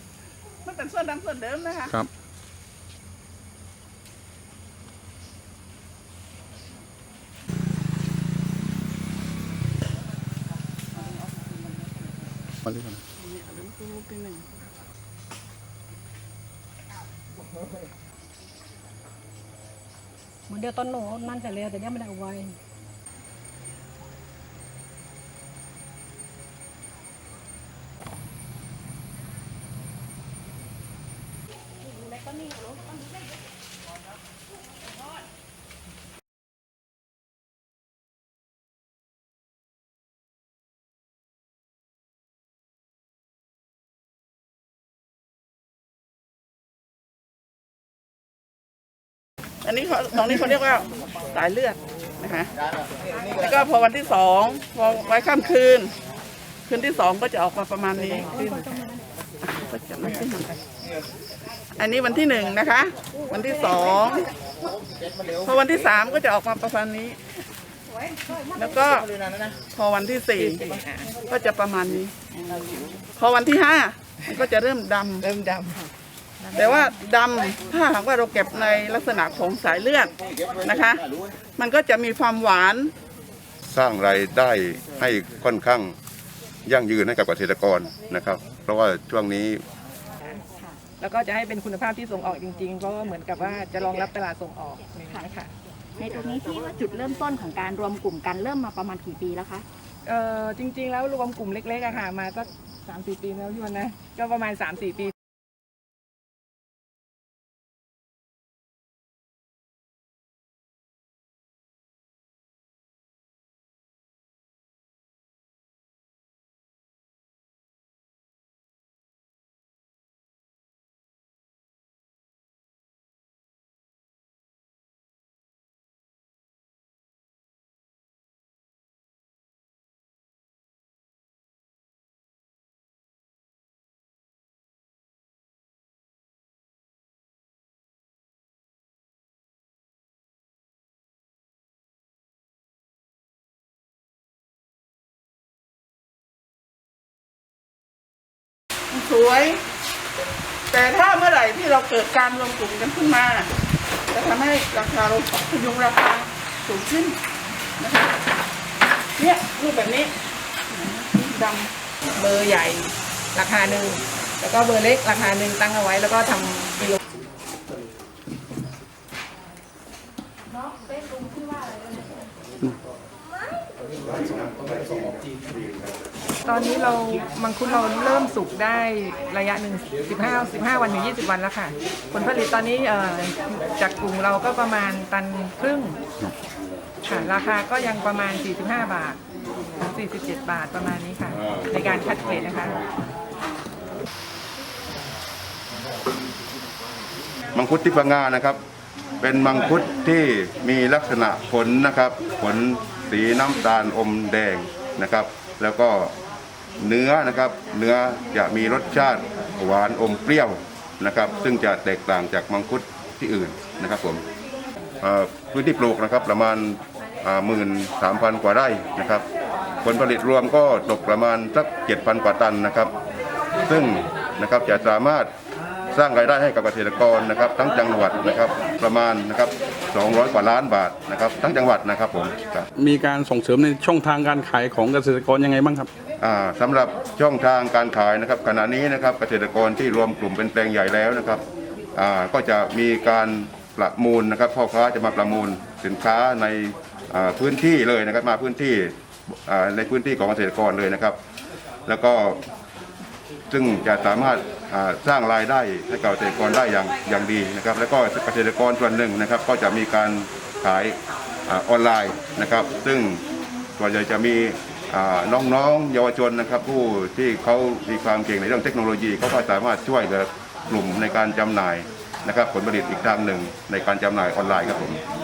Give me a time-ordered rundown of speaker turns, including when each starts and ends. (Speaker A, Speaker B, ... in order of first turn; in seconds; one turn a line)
Speaker A: 0.7-2.0
Speaker A: 11.0-11.6
Speaker B: 12.7-13.0
Speaker A: 13.2-14.5
Speaker C: 20.5-22.6
Speaker A: 49.6-52.5
Speaker A: 53.3-55.9
Speaker A: 56.7-58.4
Speaker D: 58.3-58.6
Speaker A: 59.4-60.6
Speaker A: 61.8-64.3
Speaker A: 65.4-67.2
Speaker A: 68.5-69.1
Speaker A: 69.7-70.6
Speaker D: 70.7-71.1
Speaker A: 71.3-72.2
Speaker E: 72.4-73.0
Speaker A: 73.2-75.2
Speaker D: 75.2-75.8
Speaker A: 76.5-81.0
Speaker A: 81.6-82.9
Speaker F: 83.7-86.0
Speaker F: 86.7-89.6
Speaker D: 91.0-95.5
Speaker E: 96.0-99.7
Speaker D: 100.0-105.1
Speaker A: 148.9-149.6
Speaker A: 150.7-153.5
Speaker A: 154.1-157.2
Speaker A: 157.8-158.1
Speaker A: 159.2-160.1
Speaker A: 160.7-161.7
Speaker D: 162.2-167.0
Speaker D: 176.4-186.0
Speaker D: 187.1-189.2
Speaker D: 189.8-192.8
Speaker F: 197.5-198.6
Speaker F: 199.2-206.1
Speaker F: 206.8-214.2
Speaker F: 215.0-219.3
Speaker F: 219.8-222.9
Speaker F: 223.7-225.3
Speaker F: 225.9-232.7
Speaker B: 232.8-235.9
Speaker F: 236.2-241.4
Speaker F: 241.9-251.2
Speaker F: 251.9-252.4
Speaker F: 253.5-263.2
Speaker F: 263.8-275.0